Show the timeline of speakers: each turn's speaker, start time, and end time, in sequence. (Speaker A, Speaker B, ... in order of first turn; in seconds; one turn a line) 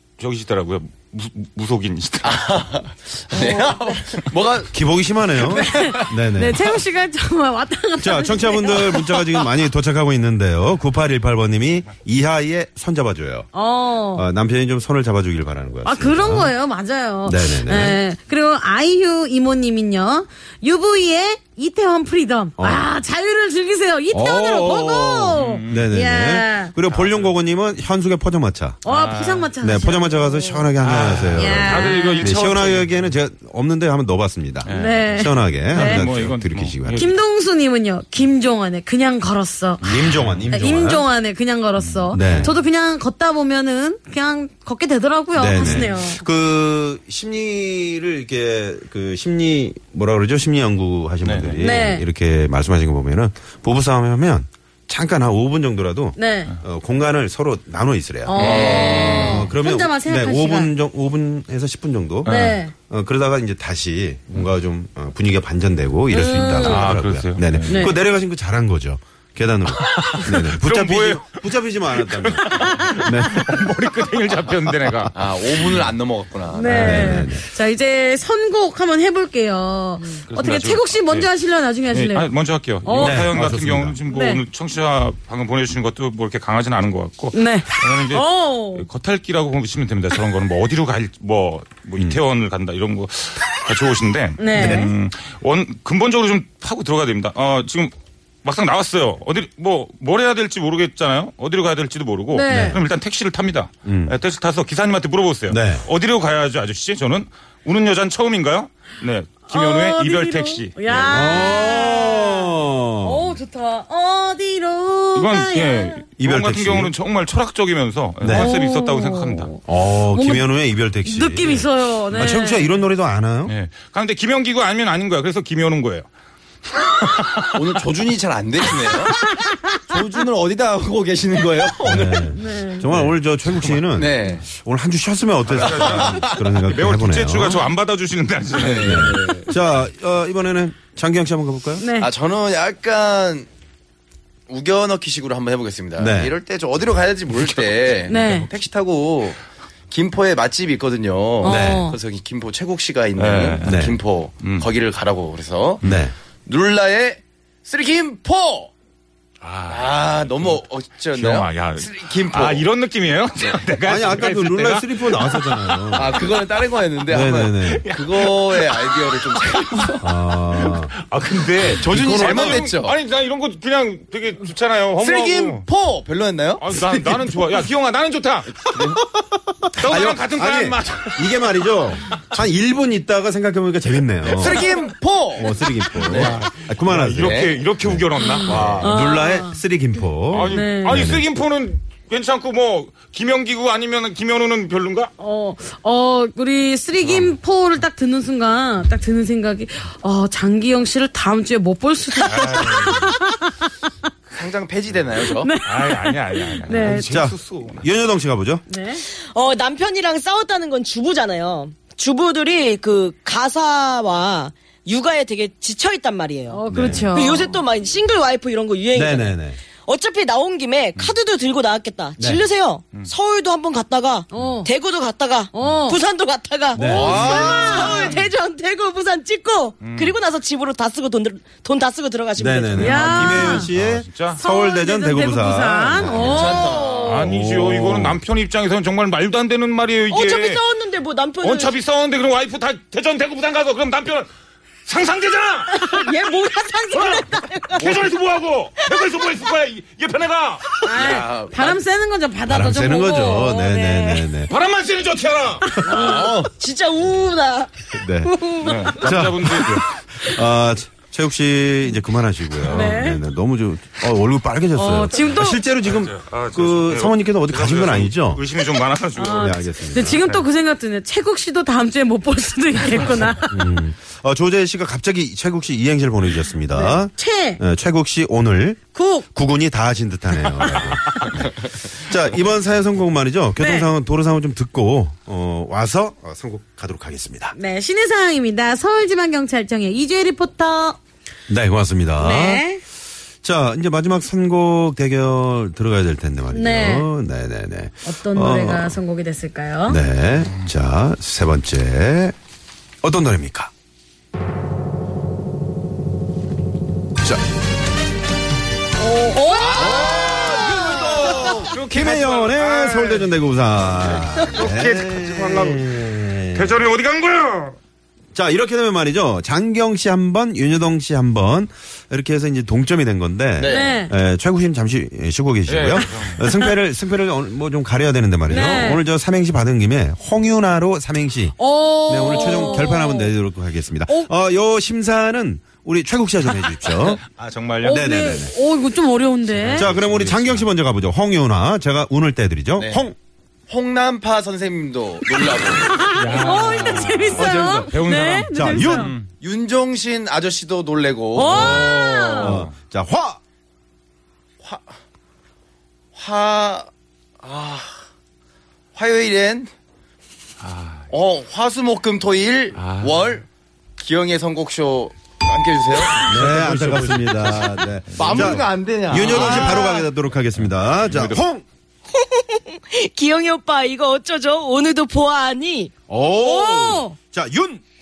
Speaker A: 0.2-2.6
Speaker B: 2.2-4.8
Speaker C: 4.7-6.6
Speaker B: 5.4-6.0
Speaker D: 5.5-9.4
Speaker C: 8.0-13.5
Speaker D: 13.5-14.3
Speaker C: 14.1-16.5
Speaker D: 15.8-26.7
Speaker C: 17.2-18.0
Speaker C: 22.6-22.9
Speaker C: 24.1-28.8
Speaker A: 25.3-25.9
Speaker A: 26.9-27.3
Speaker D: 28.8-30.7
Speaker A: 28.9-29.5
Speaker C: 29.6-37.1
Speaker A: 30.8-33.2
Speaker D: 31.3-32.4
Speaker A: 34.6-37.1
Speaker D: 34.7-36.1
Speaker D: 36.9-39.9
Speaker A: 39.8-40.5
Speaker C: 39.8-41.1
Speaker D: 40.5-46.2
Speaker A: 41.8-42.5
Speaker C: 42.1-42.5
Speaker C: 45.3-73.5
Speaker A: 51.2-51.7
Speaker D: 51.6-52.1
Speaker D: 56.1-56.5
Speaker D: 58.2-60.7
Speaker A: 58.4-59.5
Speaker A: 62.2-62.6
Speaker D: 62.2-62.7
Speaker D: 66.1-66.9
Speaker A: 66.6-68.0
Speaker D: 67.7-68.0
Speaker A: 69.7-75.9
Speaker B: 75.1-77.2
Speaker D: 76.5-82.3
Speaker C: 76.7-77.4
Speaker A: 80.1-81.3
Speaker A: 81.8-97.9
Speaker D: 82.8-83.3
Speaker C: 82.9-84.0
Speaker D: 84.1-84.4
Speaker D: 87.3-88.9
Speaker D: 94.4-94.9
Speaker C: 94.5-94.9
Speaker A: 98.4-111.4
Speaker D: 102.3-102.8
Speaker C: 102.5-102.8
Speaker C: 103.8-104.2
Speaker C: 105.5-105.8
Speaker D: 109.5-116.0
Speaker C: 110.9-113.4
Speaker A: 115.1-119.5
Speaker C: 116.2-116.9
Speaker C: 118.2-118.5
Speaker D: 118.3-120.5
Speaker C: 119.7-123.5
Speaker D: 121.0-122.8
Speaker A: 121.4-122.4
Speaker A: 123.4-126.1
Speaker A: 126.8-127.5
Speaker B: 127.5-129.2
Speaker B: 129.9-132.3
Speaker C: 131.8-137.7
Speaker D: 132.3-132.9
Speaker A: 132.9-133.9
Speaker B: 133.9-134.5
Speaker A: 135.4-139.4
Speaker B: 135.6-136.4
Speaker B: 138.6-139.5
Speaker C: 138.8-141.8
Speaker D: 141.8-142.1
Speaker B: 142.0-143.5
Speaker B: 144.5-149.4
Speaker C: 146.0-146.3
Speaker D: 148.1-148.5
Speaker B: 149.9-155.8
Speaker D: 151.4-152.0
Speaker C: 151.4-151.9
Speaker A: 153.2-154.7
Speaker C: 153.6-153.9
Speaker C: 155.8-156.1
Speaker B: 156.4-158.7
Speaker A: 159.4-166.2
Speaker B: 159.7-162.7
Speaker C: 163.8-166.2
Speaker B: 165.9-170.0
Speaker A: 167.1-175.6
Speaker C: 167.1-167.8
Speaker C: 170.0-170.9
Speaker B: 171.7-172.9
Speaker C: 171.9-172.7
Speaker B: 175.0-177.4
Speaker A: 176.6-178.7
Speaker B: 178.6-179.0
Speaker C: 179.2-184.7
Speaker A: 179.7-182.2
Speaker B: 184.2-186.3
Speaker C: 185.2-191.2
Speaker A: 185.9-189.1
Speaker B: 187.2-187.6
Speaker D: 188.2-189.6
Speaker A: 190.3-195.1
Speaker D: 190.4-191.1
Speaker D: 195.2-203.6
Speaker A: 197.0-197.4
Speaker A: 202.2-203.2
Speaker B: 204.3-205.5
Speaker D: 205.3-207.1
Speaker A: 205.6-207.9
Speaker C: 206.7-208.6
Speaker D: 208.7-209.0
Speaker E: 209.1-233.1
Speaker D: 216.5-217.5
Speaker C: 216.7-217.1
Speaker C: 218.9-219.6
Speaker C: 222.2-222.5
Speaker D: 224.3-224.7
Speaker D: 225.5-226.0
Speaker C: 226.7-227.9
Speaker D: 226.8-227.9
Speaker B: 226.9-228.0
Speaker A: 227.9-228.3
Speaker A: 229.8-230.2
Speaker C: 232.3-238.2
Speaker D: 232.8-233.7
Speaker A: 232.8-234.4
Speaker D: 234.4-237.3
Speaker B: 236.2-237.2
Speaker A: 237.0-240.6
Speaker E: 240.1-241.7
Speaker A: 241.4-244.3
Speaker A: 244.8-246.1
Speaker E: 245.7-248.0
Speaker A: 246.9-250.8
Speaker D: 250.8-254.3
Speaker B: 250.8-251.8
Speaker C: 252.4-254.5
Speaker A: 254.5-255.8
Speaker D: 255.7-256.3
Speaker E: 255.8-259.0
Speaker B: 255.9-256.5
Speaker C: 257.9-258.3
Speaker A: 258.6-260.0
Speaker C: 259.0-268.4
Speaker A: 262.6-262.9
Speaker D: 262.7-263.2
Speaker D: 264.7-265.6
Speaker A: 265.8-270.4
Speaker D: 269.1-273.8
Speaker C: 269.2-270.2
Speaker C: 273.5-287.5
Speaker D: 276.7-277.6
Speaker D: 278.9-279.3
Speaker D: 280.3-281.4
Speaker D: 283.6-283.9
Speaker D: 287.5-291.0
Speaker C: 291.5-292.7
Speaker D: 292.2-292.8
Speaker C: 293.4-299.0
Speaker D: 296.5-297.1
Speaker D: 298.0-300.0
Speaker C: 299.9-302.3
Speaker C: 303.0-303.7
Speaker D: 309.0-311.0
Speaker B: 309.6-311.5
Speaker A: 309.7-313.3
Speaker C: 311.2-316.8
Speaker A: 314.0-315.9
Speaker A: 316.5-317.8
Speaker C: 318.3-337.2
Speaker B: 323.6-324.0
Speaker D: 323.6-324.1
Speaker A: 325.6-326.4
Speaker D: 328.5-329.0
Speaker D: 331.6-333.3
Speaker A: 336.9-338.1
Speaker D: 337.8-339.9
Speaker C: 337.8-338.5
Speaker A: 339.5-340.7
Speaker C: 339.7-343.1
Speaker B: 342.8-343.1
Speaker B: 343.7-346.0
Speaker D: 345.9-349.1
Speaker A: 346.1-349.3
Speaker C: 347.3-347.9
Speaker C: 348.5-349.1
Speaker B: 349.4-352.6
Speaker D: 351.3-352.6
Speaker C: 351.5-353.4
Speaker B: 354.6-354.9
Speaker B: 356.1-356.9
Speaker B: 357.4-358.0
Speaker B: 358.9-359.7
Speaker A: 360.6-361.1
Speaker B: 361.1-363.4
Speaker A: 362.7-363.4
Speaker B: 364.0-366.3
Speaker A: 366.0-368.6
Speaker C: 366.3-371.6
Speaker B: 368.2-370.1
Speaker A: 369.2-369.8
Speaker A: 370.5-371.4
Speaker E: 372.1-375.9
Speaker C: 376.1-377.8
Speaker D: 376.4-377.1